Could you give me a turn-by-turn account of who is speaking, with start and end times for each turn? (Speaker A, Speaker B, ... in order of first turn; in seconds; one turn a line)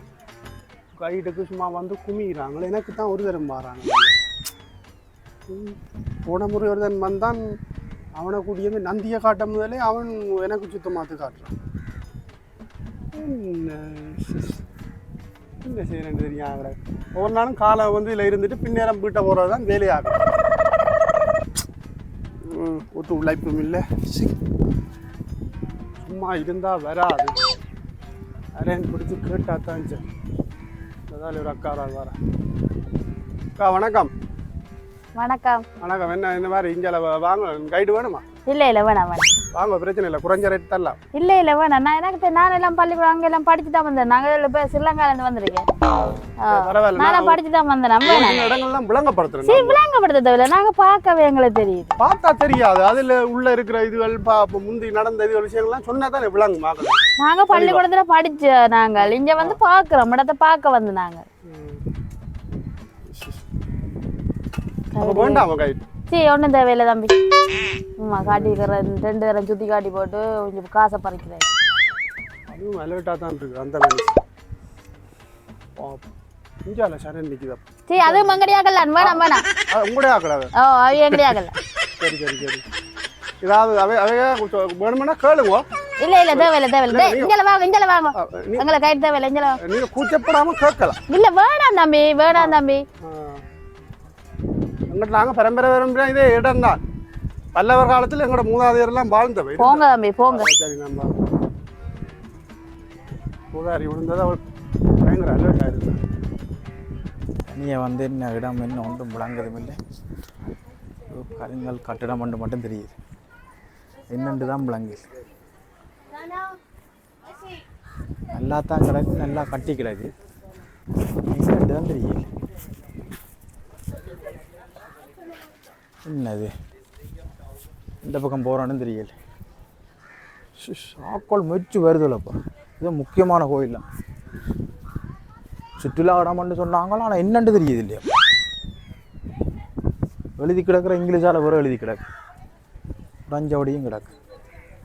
Speaker A: 1.0-4.1
Speaker A: 5.5-7.6
Speaker A: 8.2-11.5
Speaker A: 13.1-14.6
Speaker A: 15.6-20.2
Speaker A: 22.4-23.9
Speaker A: 26.0-27.3
Speaker A: 28.6-30.0
Speaker A: 31.1-32.1
Speaker A: 33.6-34.1
Speaker B: 35.1-35.6
Speaker A: 35.8-38.2
Speaker B: 38.5-39.3
Speaker A: 39.5-41.0
Speaker B: 41.1-45.6
Speaker B: 46.4-48.5
Speaker A: 46.5-47.4
Speaker A: 48.0-49.8
Speaker B: 49.5-52.0
Speaker A: 52.0-57.0
Speaker B: 57.2-61.2
Speaker A: 57.5-57.8
Speaker A: 59.0-59.6
Speaker A: 61.5-61.8
Speaker A: 63.1-63.4
Speaker B: 64.9-65.5
Speaker A: 65.0-65.8
Speaker B: 66.1-67.1
Speaker B: 68.0-71.5
Speaker A: 68.2-68.6
Speaker A: 72.5-74.2
Speaker A: 75.8-76.1
Speaker A: 76.7-78.4
Speaker B: 77.9-79.4
Speaker A: 79.0-81.3
Speaker B: 80.6-81.5
Speaker A: 82.0-82.6
Speaker A: 83.4-85.6
Speaker B: 86.0-89.6
Speaker A: 86.3-87.3
Speaker A: 88.1-88.7
Speaker A: 89.6-91.0
Speaker B: 91.1-92.8
Speaker A: 92.3-93.4
Speaker A: 94.9-96.8
Speaker A: 97.5-101.1
Speaker B: 99.6-100.5
Speaker A: 103.5-104.4
Speaker A: 105.0-106.0
Speaker C: 107.5-109.8
Speaker C: 111.1-112.9
Speaker C: 114.1-115.1
Speaker C: 118.3-120.1
Speaker C: 121.3-122.2
Speaker C: 126.0-126.5
Speaker C: 128.0-129.1
Speaker C: 130.6-133.8
Speaker C: 135.8-138.0
Speaker C: 140.4-142.0
Speaker C: 143.3-144.1